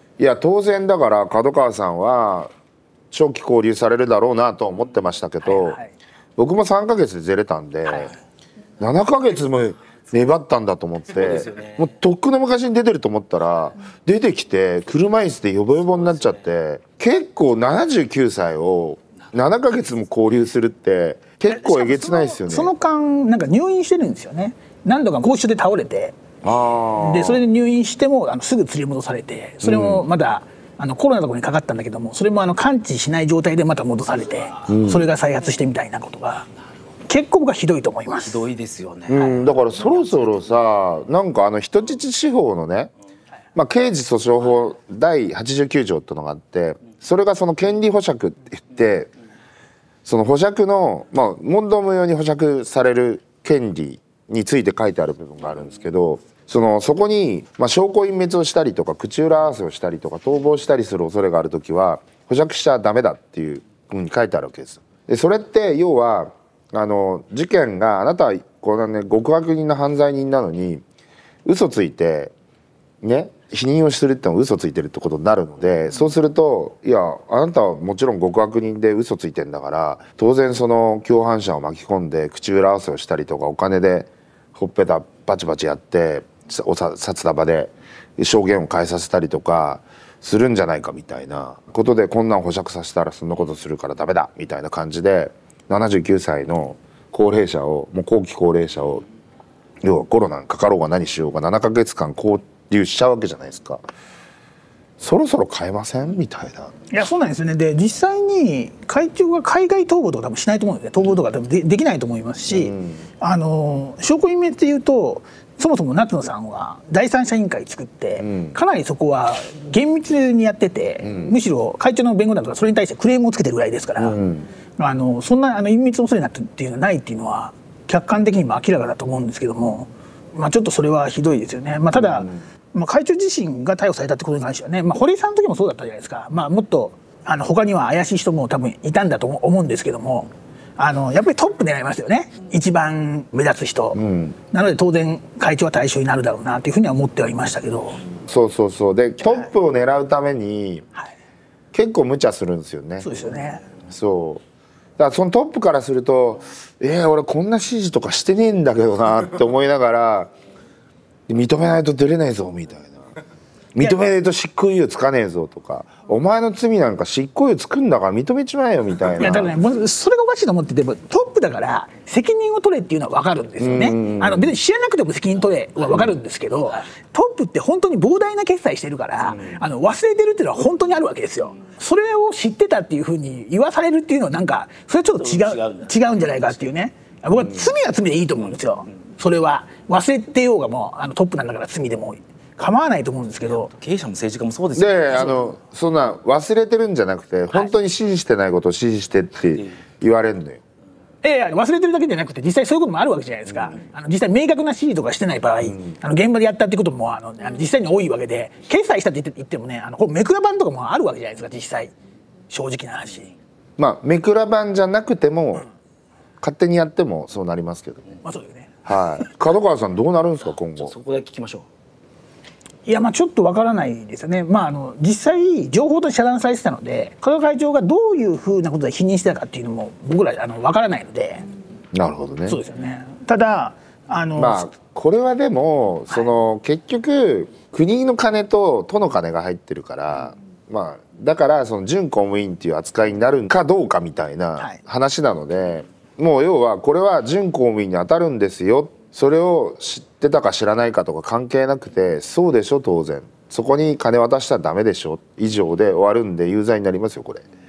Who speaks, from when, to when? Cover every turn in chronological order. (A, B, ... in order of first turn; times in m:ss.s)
0:00.2-0:02.5 A
0:03.1-0:05.8 A
0:05.4-0:05.9 B
0:06.4-0:08.1 A
0:08.8-0:22.7 A
0:11.1-0:11.8 C
0:15.8-0:16.4 C
0:21.5-0:26.2 B
0:26.4-0:27.4 A
0:27.0-0:36.4 B
0:29.6-0:30.0 A
0:34.7-0:35.0 A
0:37.0-0:38.4 B
0:38.2-0:40.4 C
0:39.1-0:42.9 A
0:43.5-0:49.1 A
0:50.0-1:10.8 A
1:11.4-1:12.3 A
1:13.0-1:39.0 A
1:39.8-1:43.8 A
1:45.0-1:46.7 A
1:46.9-2:04.2 B
1:52.5-1:53.1 A
1:58.2-1:58.6 A
2:01.0-2:01.3 A
2:04.0-2:04.5 A
2:04.8-2:24.0 B
2:11.9-2:12.4 A
2:23.9-2:24.4 A
2:24.5-2:28.0 B
2:28.2-2:30.8 A
2:31.7-2:34.4 A
2:33.0-2:33.6 B
2:35.0-2:40.3 A
2:41.3-2:43.0 A
2:43.7-2:49.6 A
2:49.1-3:13.7 B
2:53.6-2:54.5 A
3:05.1-3:06.6 C
3:07.4-3:07.7 A
3:13.4-3:15.5 C
3:14.8-3:20.6 A
3:21.2-3:31.9 B
3:25.6-3:25.9 A
3:32.5-3:33.3 B
3:33.8-3:35.6 A
3:36.4-3:38.0 A
3:38.2-3:38.7 B
3:38.8-3:40.9 A
3:40.5-3:41.6 C
3:42.8-3:51.4 B
3:51.9-3:52.6 A
3:52.5-3:54.7 B
3:54.4-4:17.4 A